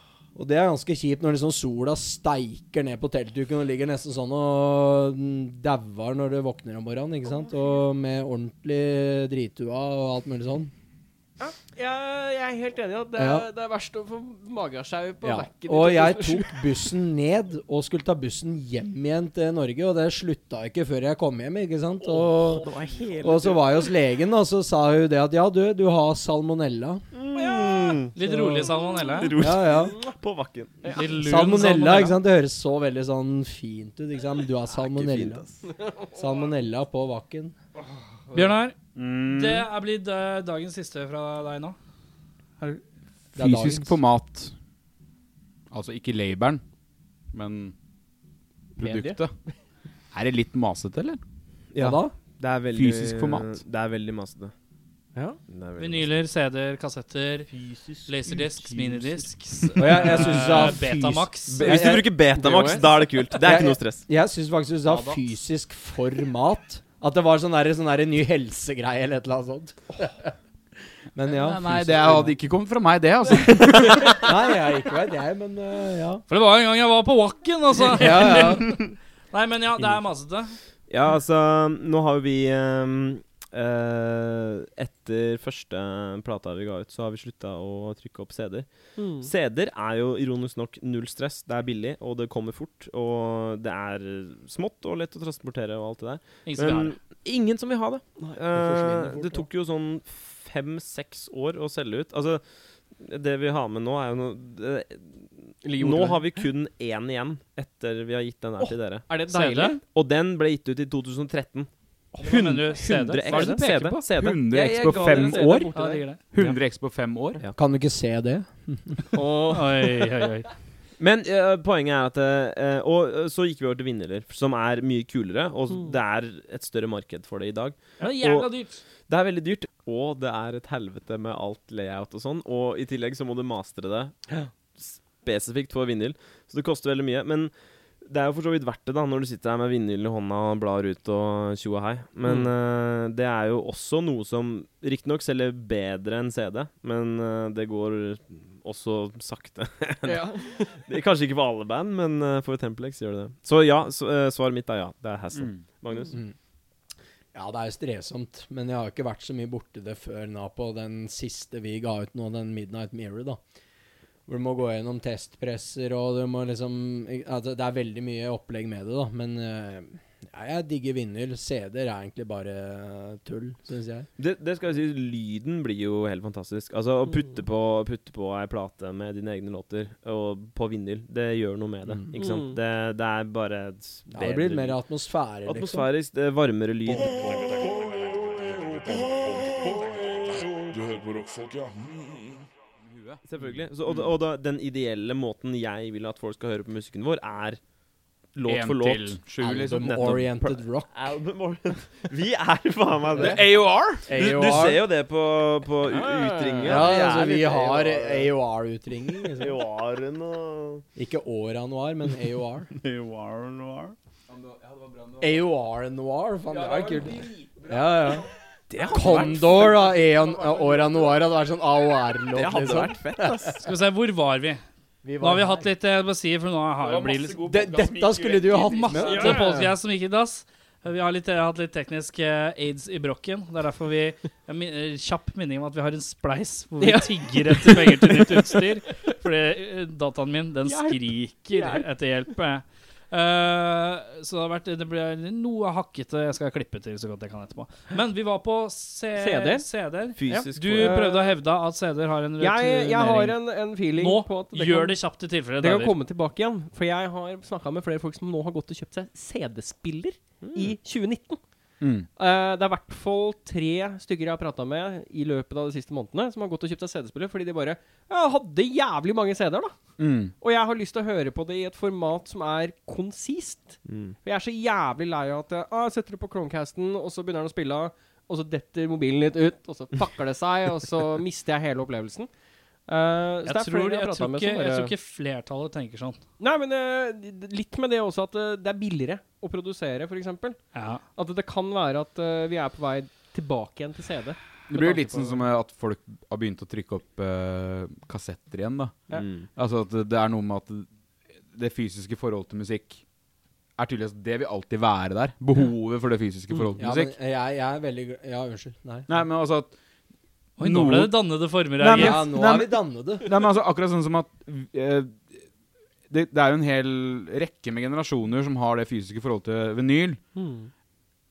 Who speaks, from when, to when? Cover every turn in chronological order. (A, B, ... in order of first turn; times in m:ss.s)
0:00.3-0:10.7 A
0:11.4-0:16.6 B
0:13.2-0:13.5 A
0:15.2-0:22.7 A
0:22.1-0:23.6 B
0:22.6-0:23.5 C
0:23.2-0:27.0 A
0:27.1-0:28.2 C
0:27.3-0:28.0 B
0:28.2-0:29.4 D
0:28.2-0:28.7 A
0:28.7-0:30.1 B
0:29.1-0:31.0 C
0:29.4-0:30.0 A
0:30.9-0:32.2 D
0:31.2-0:35.4 A
0:34.7-0:35.6 C
0:35.8-0:36.2 B
0:36.1-0:37.5 A
0:38.3-0:38.7 D
0:39.0-0:39.7 E
0:39.3-0:41.8 D
0:43.4-0:44.0 A
0:43.4-0:44.5 E
0:45.7-0:46.6 E
0:47.3-0:47.7 E
0:48.8-0:49.3 E
0:48.8-0:49.5 B
0:50.1-0:51.2 E
0:51.7-0:54.5 C
0:51.8-0:52.2 A
0:52.7-0:53.6 E
0:55.5-0:56.1 C
0:55.8-0:57.5 D
0:58.0-1:01.8 D
0:59.8-1:02.1 A
1:01.5-1:04.0 C
1:02.3-1:03.4 B
1:03.4-1:10.3 A
1:04.8-1:05.2 D
1:11.1-1:12.3 A
1:11.3-1:14.2 E
1:14.2-1:16.2 A
1:16.3-1:20.6 D
1:17.9-1:18.8 A
1:20.9-1:42.4 C
1:29.0-1:29.3 B
1:36.4-1:37.0 D
1:38.5-1:39.4 A
1:42.9-1:49.1 C
1:45.6-1:46.5 B
1:49.1-1:49.8 B
1:49.3-1:49.8 D
1:49.8-1:55.6 C
1:52.2-1:54.0 D
1:53.2-1:53.7 B
1:54.2-1:55.7 E
1:54.5-1:56.0 B
1:55.7-1:56.6 D
1:56.3-1:57.4 E
1:57.6-1:59.0 A
1:59.1-2:00.1 B
1:59.5-2:00.5 D
2:01.0-2:08.5 C
2:05.7-2:06.0 B
2:08.0-2:08.8 D
2:09.1-2:14.2 C
2:14.7-2:36.2 C
2:22.2-2:22.5 B
2:30.0-2:30.7 B
2:35.3-2:35.6 E
2:37.3-2:43.4 A
2:44.3-2:54.1 A
2:54.2-3:04.8 C
3:01.8-3:02.1 A
3:02.1-3:02.6 B
3:04.1-3:05.9 A
3:05.4-3:07.6 C
3:06.8-3:12.5 F
3:12.8-3:13.2 E
3:13.2-3:17.6 C
3:18.3-3:19.3 C
3:18.4-3:20.3 E
3:19.4-3:21.1 A
3:19.9-3:20.2 C
3:20.9-3:23.5 C
3:23.1-3:24.0 E
3:24.0-3:28.3 C
3:24.1-3:24.8 A
3:25.8-3:26.9 B
3:26.6-3:29.6 A
3:29.4-3:30.8 C
3:31.0-3:32.7 A
3:32.8-3:33.9 C
3:34.3-3:35.4 E
3:35.2-3:38.3 A
3:36.5-3:38.3 E
3:38.7-3:39.7 C
3:38.9-3:43.6 A
3:39.0-3:41.2 E
3:42.3-3:43.6 C
3:43.6-3:44.6 D
3:45.0-3:45.7 A
3:45.2-3:47.4 D
3:46.8-3:49.0 E
3:47.4-3:49.6 A
3:48.6-4:13.4 D
3:49.0-3:49.7 B
3:56.8-3:58.7 B
4:00.6-4:01.9 B
4:09.1-4:09.6 B
4:10.2-4:10.9 C
4:10.2-4:11.4 B
4:12.4-4:15.0 B
4:14.0-4:16.0 D
4:15.6-4:21.4 B
4:20.4-4:20.8 C
4:21.8-4:22.1 E
4:22.2-4:29.8 B
4:30.0-4:30.3 E
4:30.4-4:42.3 B
4:33.8-4:34.1 C
4:42.9-4:44.9 B
4:43.4-4:46.2 D
4:46.4-4:55.4 B
4:50.7-4:51.0 D
4:54.7-5:00.9 E
4:59.1-4:59.5 C
5:01.5-5:03.0 E
5:03.8-5:07.1 E
5:06.8-5:09.1 A
5:09.1-5:09.7 E
5:10.6-5:11.1 E
5:10.6-5:12.2 D
5:11.8-5:15.4 E
5:11.9-5:13.3 A
5:16.1-5:20.2 E
5:20.3-5:20.7 B